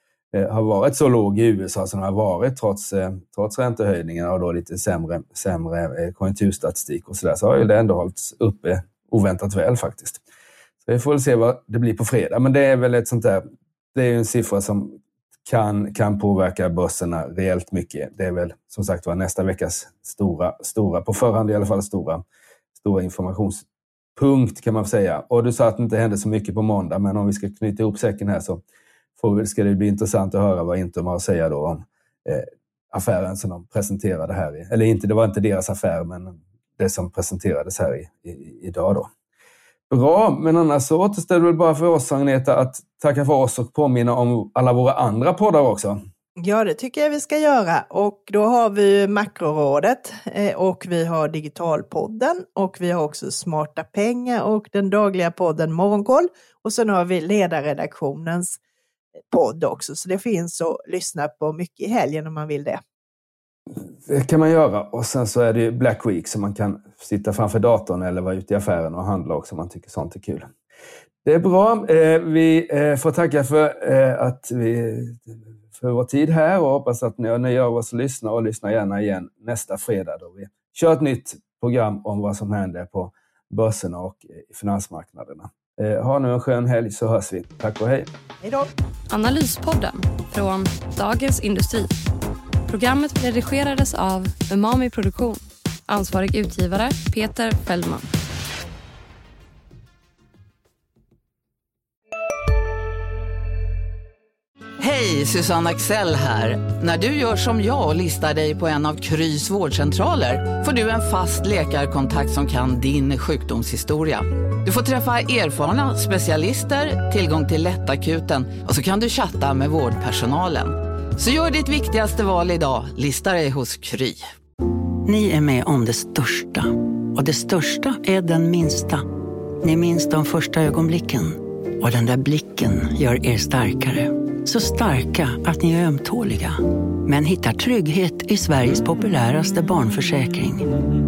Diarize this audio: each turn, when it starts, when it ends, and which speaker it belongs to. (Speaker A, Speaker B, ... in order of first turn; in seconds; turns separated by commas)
Speaker A: 0.3-10.2, Speaker A: 10.8-22.2, Speaker A: 22.8-23.6, Speaker A: 24.1-28.6, Speaker A: 29.2-39.1, Speaker A: 39.9-46.0, Speaker B: 46.4-58.6, Speaker B: 59.3-62.8, Speaker A: 64.0-70.5, Speaker A: 71.2-88.1, Speaker B: 88.4-88.7, Speaker C: 89.1-91.9, Speaker C: 92.7-98.1, Speaker D: 104.8-124.3, Speaker E: 125.0-129.1, Speaker E: 129.6-140.7